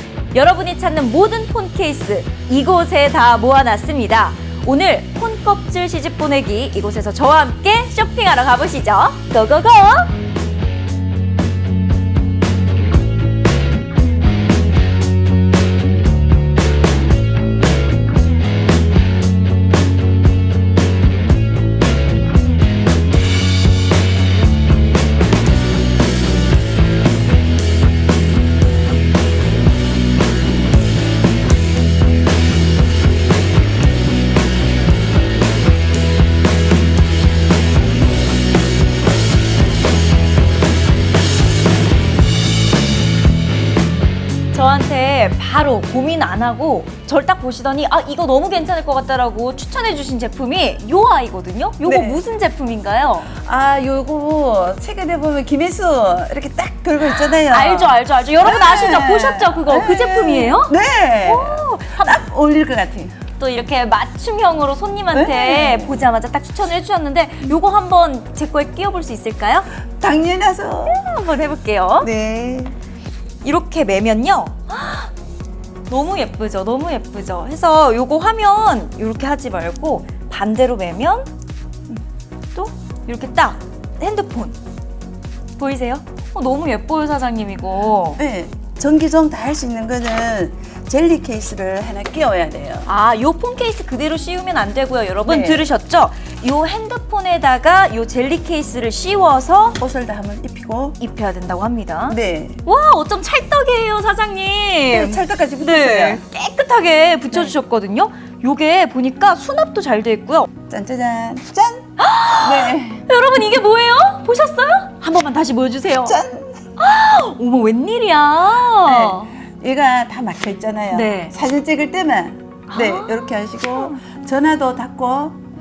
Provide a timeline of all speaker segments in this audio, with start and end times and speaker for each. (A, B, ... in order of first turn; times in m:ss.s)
0:00.3-0:10.2 A
0:44.5-0:53.3 A
0:51.8-0:52.2 B
0:53.4-1:03.2 B
0:57.1-1:02.2 A
1:03.4-1:09.7 A
1:05.1-1:06.0 B
1:10.0-1:11.0 B
1:10.8-1:12.1 A
1:12.0-1:12.8 B
1:13.4-1:15.1 A
1:15.9-1:21.3 A
1:22.5-1:24.6 A
1:25.6-1:28.2 A
1:28.2-1:32.9 B
1:32.8-1:39.8 A
1:35.3-1:35.7 B
1:39.8-1:41.0 B
1:41.0-1:50.5 A
1:42.1-1:42.6 B
1:44.9-1:46.2 B
1:50.7-1:53.1 B
1:52.0-1:56.2 A
1:56.0-1:56.6 B
1:56.8-1:59.4 A
1:58.8-2:05.4 B
2:00.9-2:01.3 A
2:02.7-2:03.3 A